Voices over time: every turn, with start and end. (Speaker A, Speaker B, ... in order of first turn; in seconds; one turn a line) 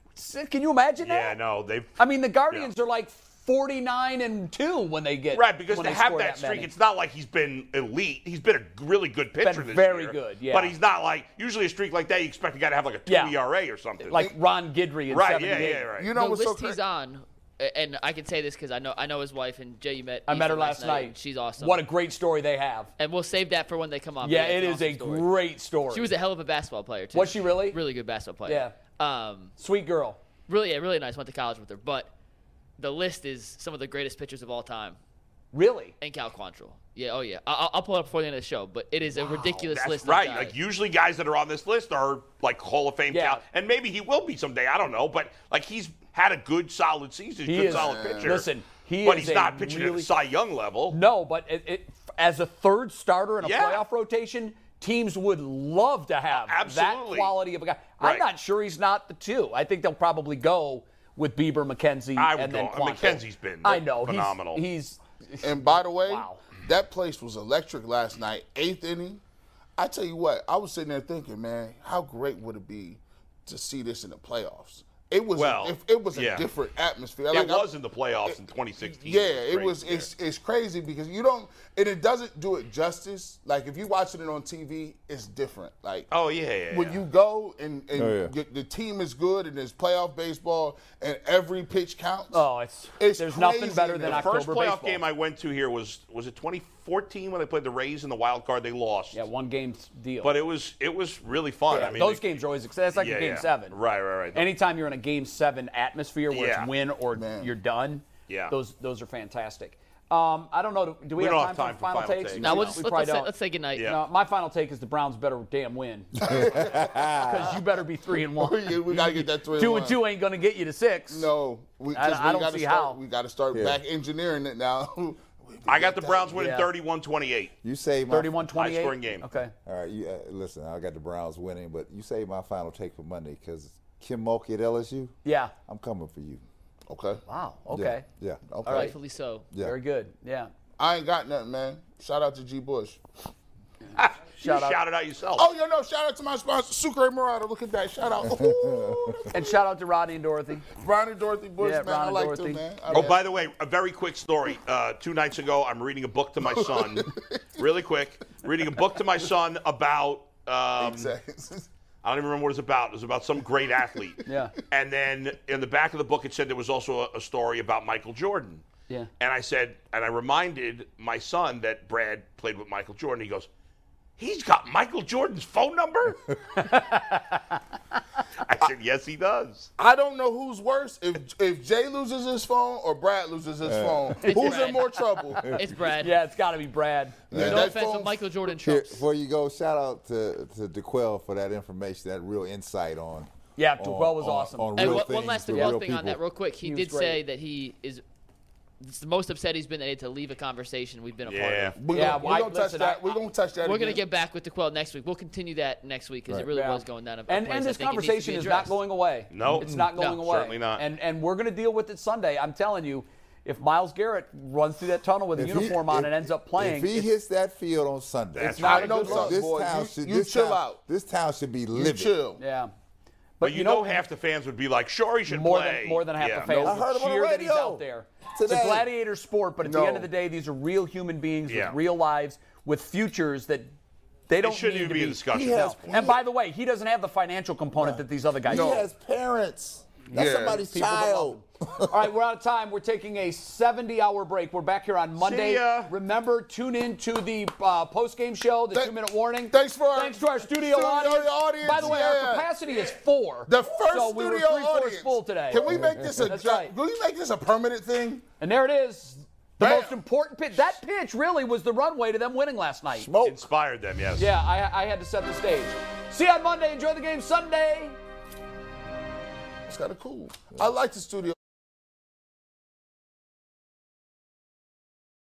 Speaker A: 0.2-1.4
Speaker B: 1.0-2.7
Speaker A: 2.0-6.7
Speaker B: 5.3-14.2
Speaker A: 9.4-10.7
Speaker A: 13.1-13.4
Speaker A: 14.0-15.9
Speaker B: 15.1-16.1
Speaker C: 16.0-16.8
Speaker D: 16.1-21.8
Speaker A: 20.3-22.9
Speaker D: 23.0-25.3
Speaker A: 24.2-26.1
Speaker D: 25.9-29.5
Speaker A: 27.1-27.8
Speaker A: 28.4-28.8
Speaker A: 29.6-30.2
Speaker D: 30.5-32.1
Speaker D: 32.8-35.0
Speaker A: 35.5-35.9
Speaker D: 36.0-40.6
Speaker A: 39.1-39.6
Speaker B: 39.7-48.5
Speaker A: 43.1-43.4
Speaker A: 47.5-50.1
Speaker C: 47.6-48.4
Speaker B: 49.0-51.0
Speaker A: 50.9-66.4
Speaker B: 53.4-53.8
Speaker B: 56.3-57.4
Speaker B: 58.0-58.3
Speaker B: 62.2-64.6
Speaker C: 65.4-69.2
Speaker C: 69.8-86.1
Speaker B: 75.3-76.5
Speaker B: 77.3-80.1
Speaker B: 86.1-87.0
Speaker C: 86.7-92.5
Speaker E: 87.9-88.3
Speaker A: 92.3-95.0
Speaker C: 93.0-94.4
Speaker B: 94.0-99.2
Speaker A: 99.1-100.3
Speaker B: 100.2-102.4
Speaker A: 101.7-103.8
Speaker B: 102.9-104.5
Speaker A: 104.3-116.1
Speaker B: 106.3-106.7
Speaker C: 107.1-107.5
Speaker B: 108.3-108.5
Speaker B: 111.2-112.8
Speaker D: 112.4-113.9
Speaker E: 116.2-117.6
Speaker C: 116.2-117.0
Speaker A: 117.2-121.3
Speaker C: 118.3-120.0
Speaker C: 121.1-126.4
Speaker A: 121.9-123.0
Speaker E: 123.5-123.8
Speaker B: 125.7-127.5
Speaker A: 126.3-126.7
Speaker E: 127.6-128.4
Speaker A: 128.1-129.5
Speaker B: 128.5-129.3
Speaker E: 129.7-135.2
Speaker A: 135.2-135.5
Speaker E: 135.7-136.4
Speaker C: 136.9-137.2
Speaker A: 137.3-138.1
Speaker E: 137.7-138.9
Speaker C: 138.5-138.9
Speaker D: 138.7-139.5
Speaker A: 138.7-138.9
Speaker A: 139.6-140.5
Speaker C: 140.8-143.0
Speaker A: 144.0-144.8
Speaker B: 144.0-145.5
Speaker C: 145.4-149.7
Speaker E: 148.2-149.1
Speaker A: 149.3-150.7
Speaker C: 150.8-153.3
Speaker A: 151.6-152.6
Speaker B: 152.9-161.1
Speaker C: 156.4-157.4
Speaker C: 160.8-161.7
Speaker B: 162.0-168.6
Speaker A: 164.2-164.5
Speaker B: 169.2-173.5
Speaker B: 174.2-176.2
Speaker A: 176.6-177.6
Speaker B: 178.4-179.7
Speaker C: 179.8-185.6
Speaker E: 183.6-184.3
Speaker D: 184.3-186.2
Speaker A: 186.0-187.2
Speaker C: 187.3-188.2
Speaker E: 187.3-187.7
Speaker D: 187.4-189.0
Speaker E: 188.5-196.2
Speaker A: 193.6-195.9
Speaker D: 194.8-198.0
Speaker A: 196.6-197.2
Speaker D: 198.8-202.0
Speaker B: 201.3-201.8
Speaker C: 201.8-204.0
Speaker A: 201.9-203.1
Speaker D: 203.6-208.8
Speaker A: 206.5-217.1
Speaker B: 209.3-210.8
Speaker D: 210.0-210.3
Speaker E: 215.4-222.1
Speaker B: 218.3-219.1
Speaker A: 218.4-219.4
Speaker C: 218.7-220.8
Speaker C: 221.7-222.4
Speaker A: 222.4-222.7
Speaker A: 223.4-224.0
Speaker B: 223.4-226.8
Speaker A: 225.3-233.7
Speaker E: 226.6-228.9
Speaker C: 229.6-230.1
Speaker B: 231.5-231.8
Speaker A: 234.3-238.8
Speaker B: 234.4-235.7
Speaker E: 235.3-236.1
Speaker C: 235.6-236.2
Speaker C: 237.8-238.9
Speaker E: 238.5-241.9
Speaker A: 240.1-256.7
Speaker C: 240.1-240.6
Speaker B: 245.2-245.9
Speaker C: 249.5-252.5
Speaker C: 253.5-258.2
Speaker E: 255.7-256.2
Speaker A: 258.4-263.1
Speaker C: 259.6-260.0
Speaker E: 262.9-263.4
Speaker B: 263.2-264.3
Speaker A: 264.2-268.0
Speaker C: 269.7-271.4